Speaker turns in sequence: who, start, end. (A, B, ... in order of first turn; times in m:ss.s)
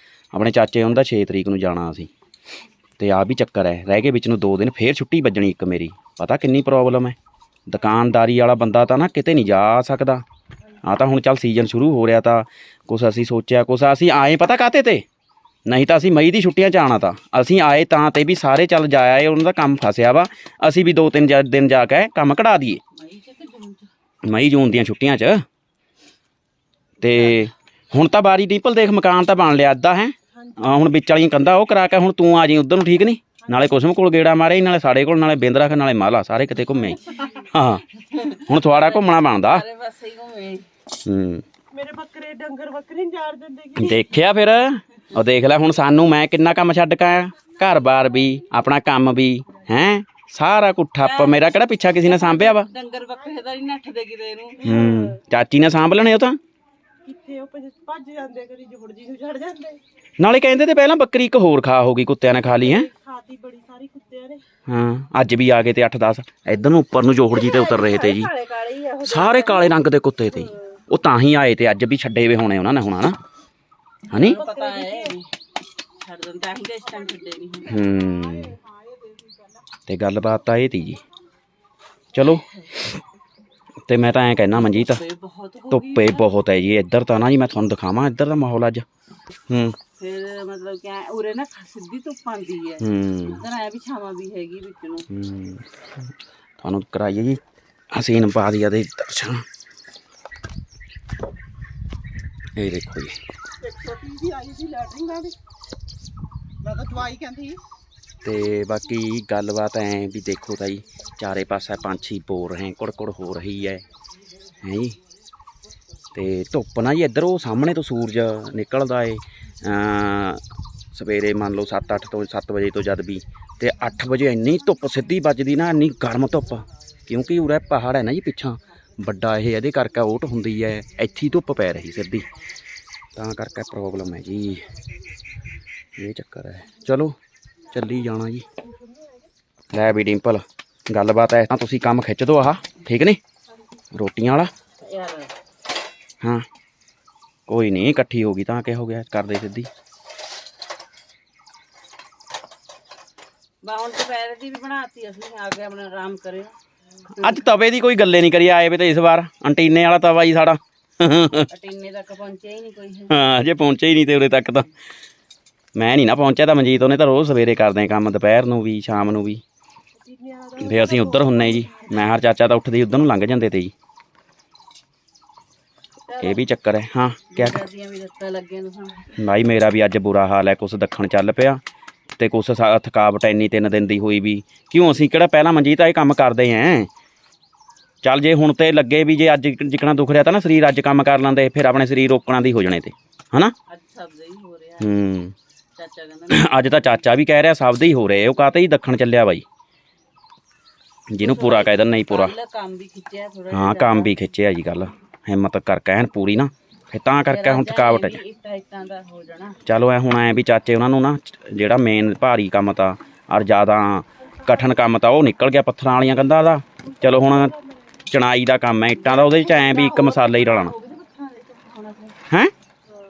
0:00.3-0:02.1 A
0:03.0-0:07.2 A
0:07.7-0:10.2 A
0:10.8-0:15.0 A
0:15.6-0:22.8 A
0:23.0-0:23.9 B
0:24.2-0:25.4 A
0:27.0-0:37.8 A
0:30.3-0:30.8 C
0:38.1-0:40.6 B
0:38.5-0:39.6 A
0:41.0-0:41.4 A
0:41.7-0:44.0 C
0:43.8-0:52.7 A
0:51.0-0:54.8 B
0:54.6-0:55.2 C
0:54.6-0:56.4 A
0:57.0-0:59.8 C
1:00.2-1:02.9 A
1:02.6-1:04.4 C
1:04.7-1:08.3 A
1:07.3-1:09.8 B
1:09.0-1:13.2 A
1:14.1-1:14.4 A
1:14.1-1:15.3 B
1:14.1-1:15.2 C
1:16.0-1:17.7 B
1:16.9-1:19.7 C
1:17.7-1:18.5 A
1:19.9-1:21.0 A
1:22.1-1:23.0 A
1:22.2-1:22.7 B
1:23.9-1:25.0 A
1:24.6-1:26.3 B
1:25.7-1:28.9 A
1:29.5-1:29.8 A
1:30.0-1:35.1 B
1:32.8-1:33.4 A
1:35.1-1:35.6 A
1:36.6-1:37.4 A
1:37.9-1:39.4 A
1:42.6-1:43.2 A
1:43.6-1:45.4 C
1:46.6-1:47.6 C
1:48.2-1:53.8 A
1:54.6-1:55.0 A
1:56.1-2:12.3 A
2:13.1-2:14.6 A
2:16.0-2:17.2 A
2:17.7-2:18.4 A
2:19.7-2:23.2 A
2:23.9-2:24.5 A
2:24.8-2:25.3 B
2:27.5-2:29.7 A
2:33.6-2:36.5 B
2:37.2-2:41.5 A
2:41.5-2:43.1 B
2:43.1-2:44.7 A
2:45.8-2:49.4 A
2:50.0-2:52.1 C
2:50.6-2:53.7 A
2:56.1-2:56.4 B
2:56.2-2:57.6 A
2:57.3-2:59.1 B
2:59.2-3:01.6 A
3:02.2-3:06.9 A
3:08.0-3:13.5 A
3:13.7-3:14.9 B
3:14.8-3:15.4 A
3:15.8-3:16.8 B
3:16.3-3:19.4 A
3:21.1-3:22.3 A
3:21.2-3:24.1 B
3:23.5-3:28.2 A
3:27.3-3:29.6 B
3:29.6-3:37.6 A
3:36.8-3:37.8 C
3:38.1-3:40.7 A
3:39.0-3:42.2 B